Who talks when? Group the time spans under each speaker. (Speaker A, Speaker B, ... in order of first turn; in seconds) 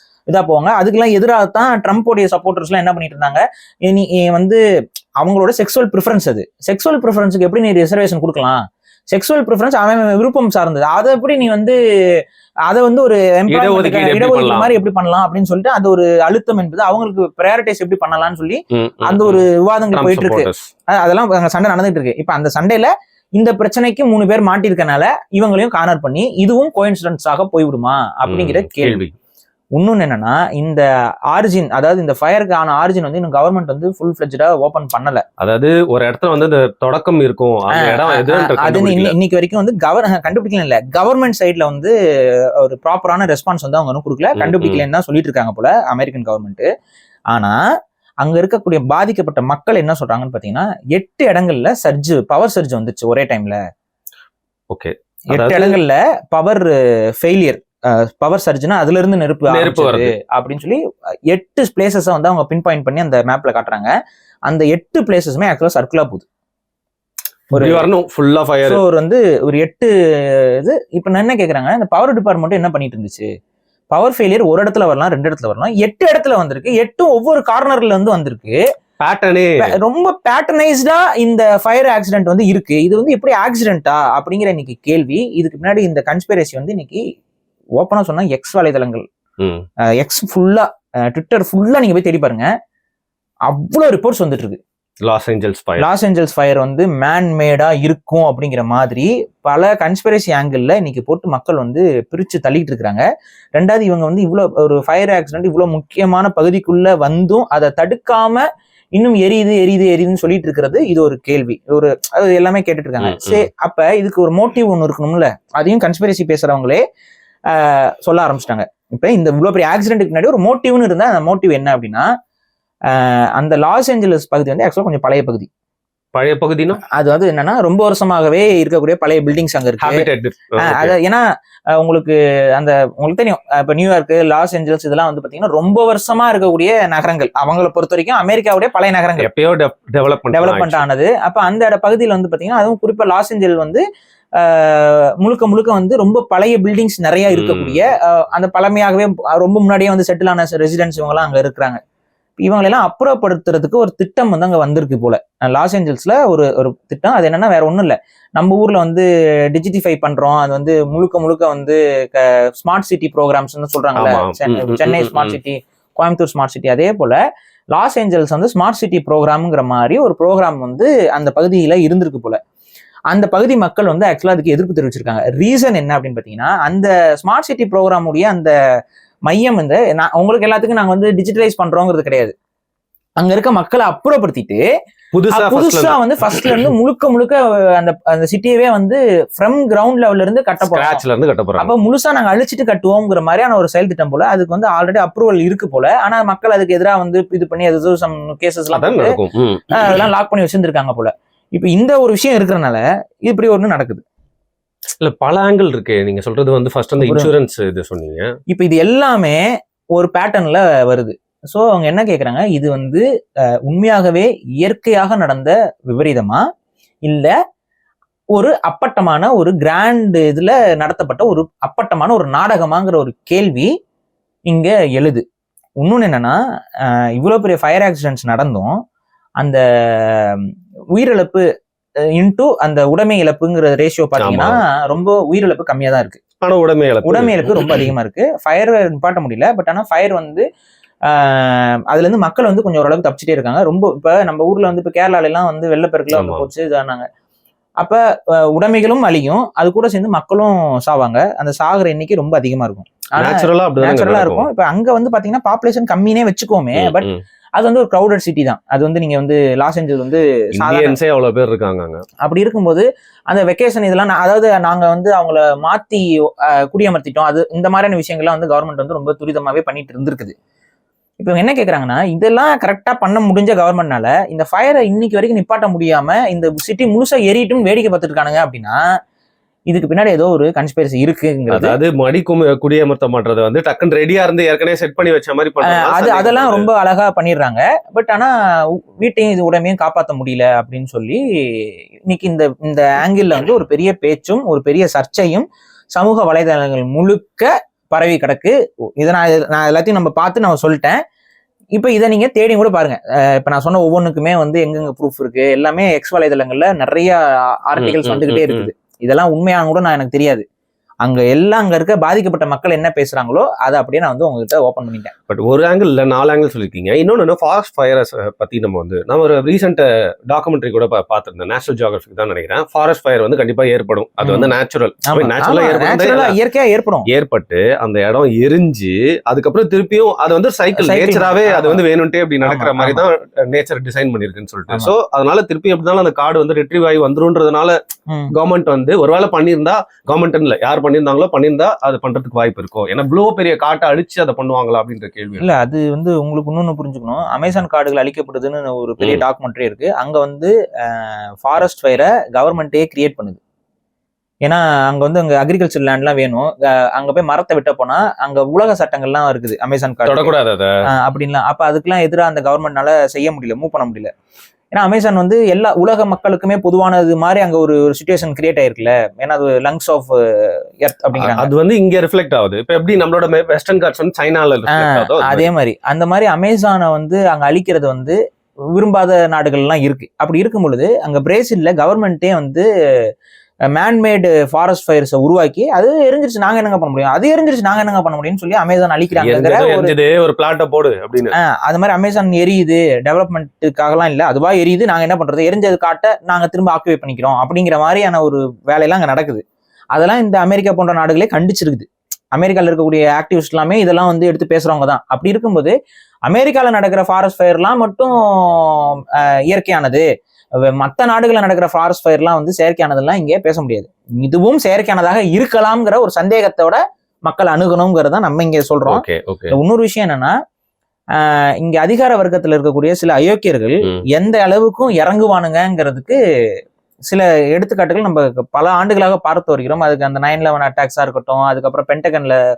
Speaker A: 0.3-4.6, 5.2-29.0, 29.8-35.2, 37.7-41.9, 42.6-46.7, 47.3-47.6, 48.2-53.6, 55.3-60.8, 61.3-63.9, 64.5-66.2, 67.5-67.8, 68.6-73.3, 73.9-78.6, 79.6-87.0, 87.8-89.0, 90.0-92.5, 93.5-94.6, 95.8-103.0, 103.5-108.4, 109.0-116.8, 117.5-122.0, 122.9-125.5, 126.9-130.0, 130.6-131.2, 131.8-139.3, 140.3-143.8, 144.4-151.8, 152.4-167.2, 167.7-172.4, 173.1-178.5, 179.3-182.3, 183.2-184.6, 185.3-191.0, 191.6-199.2, 199.7-204.0, 207.0-207.3, 208.5-209.4, 209.9-213.0, 213.6-216.4, 217.0-217.3, 218.3-223.7, 224.5-225.2, 225.8-228.8, 229.4-231.4, 232.2-236.2, 237.0-240.4, 241.1-247.1, 247.8-261.0, 262.2-270.3, 271.2-278.8, 279.7-281.8, 285.6-288.3, 289.0-301.0, 301.8-310.4, 311.0-315.1, 324.2-324.5, 325.1-327.1, 330.8-331.8, 332.4-333.0, 345.4-353.4, 354.4-360.3, 360.9-364.1, 364.7-371.5, 374.7-378.2, 378.7-382.7, 383.7-389.9, 391.4-399.4, 399.9-405.7, 406.3-410.1, 410.6-420.3, 421.1-426.2, 427.1-432.4
Speaker B: 13.5-14.7, 18.7-20.7, 28.3-29.1, 35.4-39.1, 44.4-44.8, 54.7-55.8, 59.5-60.1, 67.5-68.8, 79.0-79.7, 89.4-89.7, 95.0-95.8, 113.0-113.5, 126.1-126.8, 129.8-130.9, 139.2-140.8, 147.3-147.8, 163.9-165.4, 185.1-186.7, 190.6-191.7, 198.7-200.1, 205.0-208.3, 234.2-234.6, 236.4-237.9, 246.1-246.5, 253.2-254.5, 256.7-257.2, 260.5-262.0, 281.5-286.7, 307.8-308.7, 315.3-326.4, 327.1-337.8, 338.3-345.5, 360.1-360.7, 371.2-375.5, 389.2-391.3, 418.9-419.5